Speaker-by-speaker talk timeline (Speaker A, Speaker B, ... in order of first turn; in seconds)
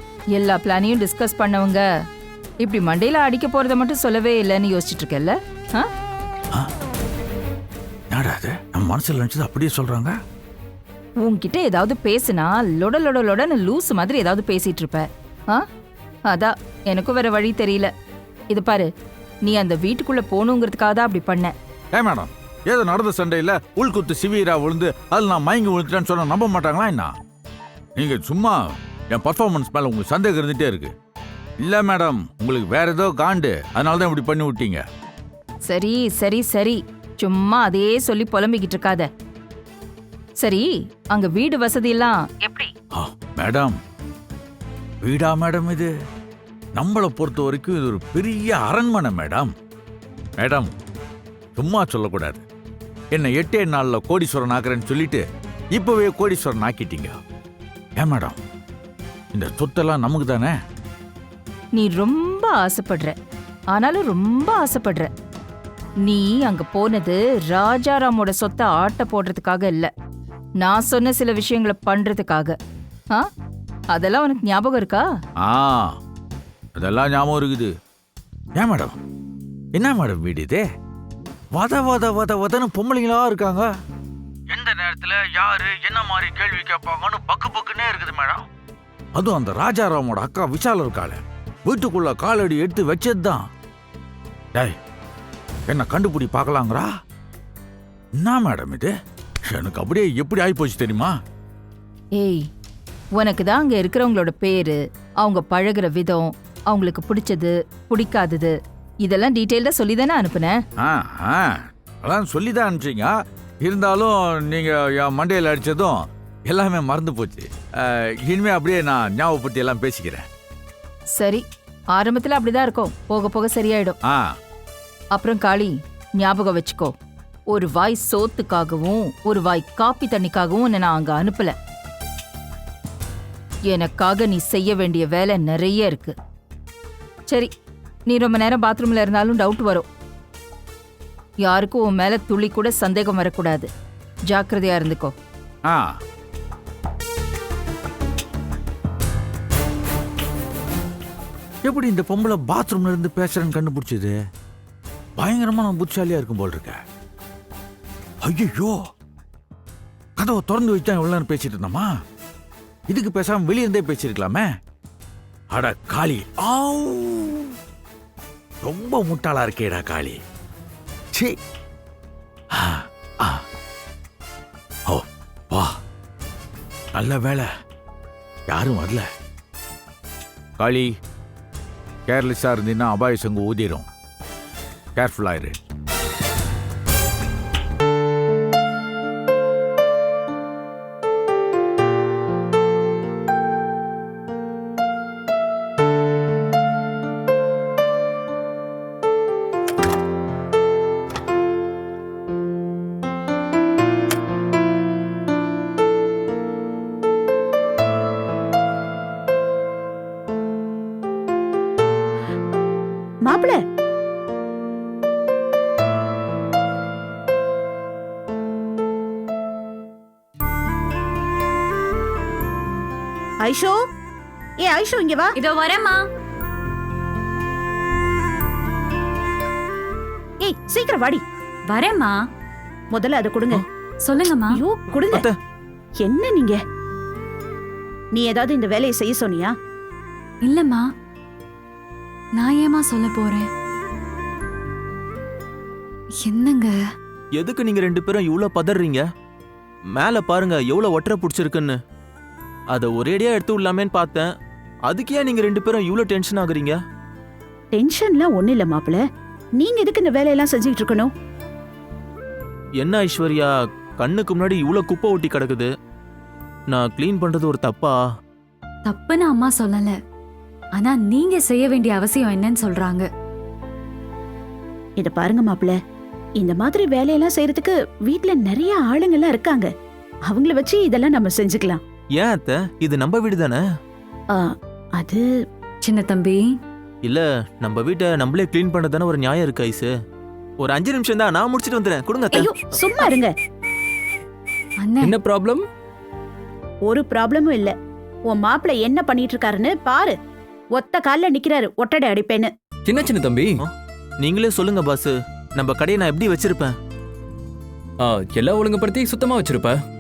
Speaker A: 0.3-1.8, 2.6-5.9, 11.2-15.7, 16.3-17.9, 18.5-18.9, 19.4-21.5, 35.7-39.1, 40.4-42.7, 61.8-63.1, 63.7-65.1, 66.0-69.9, 70.6-72.5, 73.9-75.0, 102.2-102.4, 103.2-110.6, 121.2-121.4, 121.9-124.0, 125.1-126.9, 127.5-131.5, 133.7-136.1, 138.1-139.8, 141.4-143.7, 144.3-145.1
Speaker B: 8.1-10.2, 21.9-27.1, 27.9-28.6, 29.1-30.9, 31.6-34.8, 43.0-43.8, 45.0-45.9, 46.8-49.5, 50.4-50.7, 51.5-52.4, 53.1-55.2, 55.8-57.1, 58.0-58.4, 59.3-60.5, 75.4-75.9, 76.8-77.7, 78.6-79.0, 79.8-80.6, 81.5-83.7, 84.5-88.5, 89.2-93.4, 95.7-96.9, 98.2-98.9, 99.5-101.1, 110.8-113.1, 113.6-120.2, 151.6-154.1, 155.2-156.8, 158.2-158.8, 160.2-161.9, 162.9-164.5, 165.5-167.6, 168.6-170.2, 172.5-173.4, 174.9-175.7, 176.9-177.5, 178.5-179.1, 180.6-180.9, 182.1-183.9, 184.9-185.6
Speaker C: 213.2-213.6, 223.4-223.7, 224.6-225.4, 230.4-231.2, 232.9-233.6, 234.5-235.2, 236.0-236.6, 238.1-239.5, 257.7-259.0, 259.6-261.1, 275.0-275.8, 276.4-279.7, 280.3-281.8, 284.3-285.2, 292.3-293.3, 296.8-297.7, 298.3-300.2, 300.8-302.5
Speaker D: 225.4-226.0, 231.7-232.2, 234.0-234.6, 240.4-240.8, 242.3-243.5, 246.2-246.8, 268.9-269.9, 270.8-273.1, 285.8-286.5, 294.8-295.2
Speaker E: 235.1-235.3, 247.4-249.0, 249.9-251.8, 252.7-254.3, 254.9-256.8, 262.8-265.7, 266.7-268.0, 282.2-283.6, 287.0-289.9, 290.6-292.5, 304.2-306.7
Speaker F: 295.0-295.6, 302.9-303.6, 308.0-309.8